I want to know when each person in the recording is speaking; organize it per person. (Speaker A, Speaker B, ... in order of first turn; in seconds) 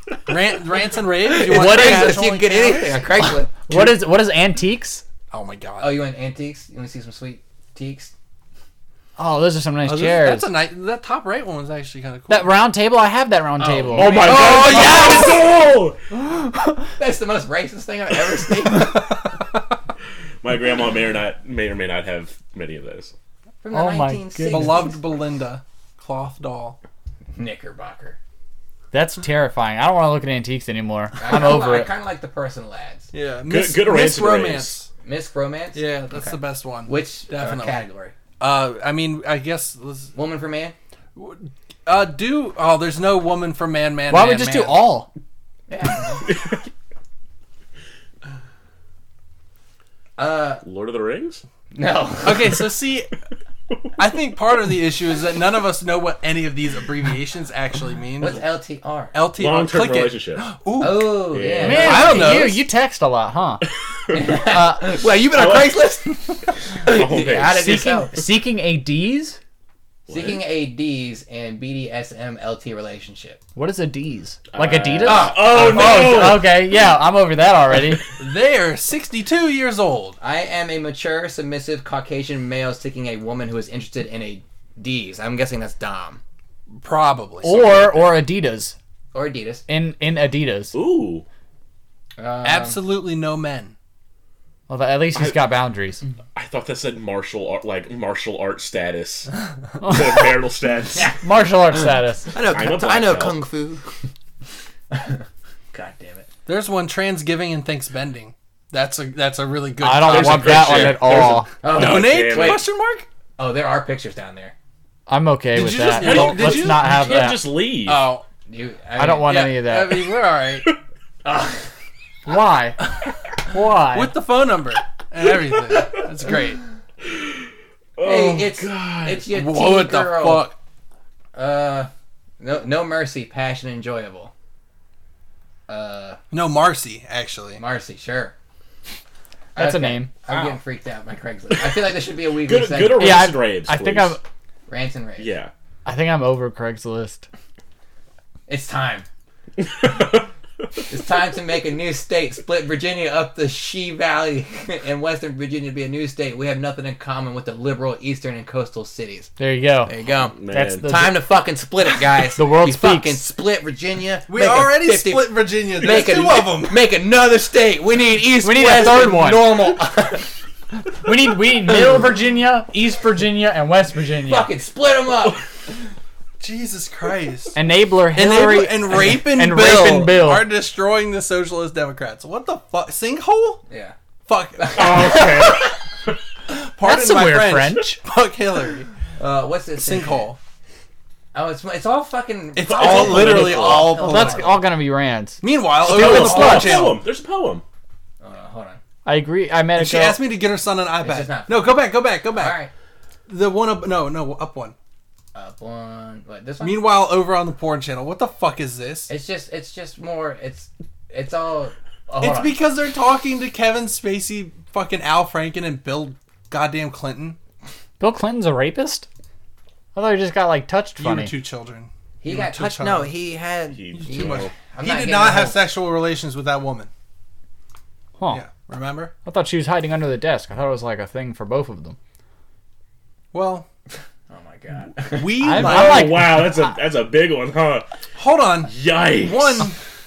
Speaker A: 0.2-3.0, 5.3-5.9, 9.8-12.5, 14.2-15.4, 18.8-19.1, 24.5-26.8, 33.1-34.9, 35.8-37.8, 38.4-40.1, 41.2-44.8, 52.2-53.1, 54.0-58.5, 59.1-62.6, 78.2-80.2, 86.8-88.1, 92.4-93.7, 106.5-113.0, 115.5-117.3, 119.3-120.7, 123.9-126.6, 129.3-130.6, 136.3-137.6, 164.3-166.8, 176.4-177.6, 178.1-183.6, 184.3-185.3, 186.5-188.9, 189.8-190.4, 192.6-194.5, 195.4-197.0, 199.8-202.6, 203.3-204.7, 206.6-209.1, 212.2-217.4, 221.0-223.1, 224.0-226.9, 228.3-229.1, 233.3-233.7, 235.1-236.2, 238.2-239.8
Speaker B: 1.2-3.5, 5.8-8.1, 13.6-15.5, 17.0-19.1, 23.6-25.0, 27.3-28.2, 31.2-33.1, 35.0-38.1, 40.1-40.7, 45.7-46.2, 50.2-50.6, 51.7-52.6, 58.2-59.1, 60.8-62.4, 64.1-66.1, 66.8-68.1, 70.1-73.4, 75.0-76.3, 80.2-86.2, 89.1-89.7, 92.2-92.8, 102.3-103.9, 104.9-106.3, 111.6-112.6, 113.4-114.5, 117.8-119.5, 121.2-121.7, 128.0-130.5, 131.3-131.9, 132.4-134.3, 135.7-136.2, 137.6-138.3, 139.6-143.3, 144.7-145.3, 148.5-149.1, 150.9-159.3, 159.8-170.3, 174.2-175.4, 183.7-183.9, 184.6-185.6, 189.2-190.2, 191.3-194.6, 196.0-196.9, 198.2-198.8, 201.0-201.8, 202.3-202.7, 205.3-206.8, 209.1-212.6, 222.2-225.6, 234.3-235.6
Speaker C: 1.4-2.3, 3.6-5.0, 9.2-10.5, 12.3-14.3, 16.2-16.8, 23.7-24.9, 28.9-31.9, 44.1-45.1, 61.6-63.6, 64.2-64.9, 67.6-69.4, 73.6-78.0, 87.4-88.8, 89.7-90.8, 94.7-96.0, 99.8-100.1, 101.2-102.3, 109.8-111.5, 115.1-117.5, 119.0-120.0, 122.3-122.8, 123.5-124.1, 139.6-140.1, 143.0-144.2, 145.8-147.3, 159.4-159.9, 160.5-161.2, 162.4-163.2, 168.4-169.6, 171.0-174.5, 177.6-180.4, 186.8-188.0, 193.9-196.8, 199.0-200.2, 218.0-219.1, 219.9-221.3, 229.2-232.0, 235.4-236.5
Speaker D: 13.9-15.9, 20.4-23.1, 33.5-34.8, 46.2-46.6, 50.6-51.4, 59.4-60.5, 61.3-62.1, 65.3-65.8, 66.8-67.7, 70.1-70.4, 74.5-76.5, 90.7-91.2, 96.3-99.3, 99.8-101.1, 102.5-103.4, 110.0-112.6, 115.8-118.0, 128.0-129.2, 140.3-140.6, 141.5-144.2, 145.2-145.5, 149.6-150.3, 160.2-160.9, 184.8-186.2, 192.6-193.9, 195.9-197.6, 223.7-224.5, 235.6-237.8, 238.7-239.7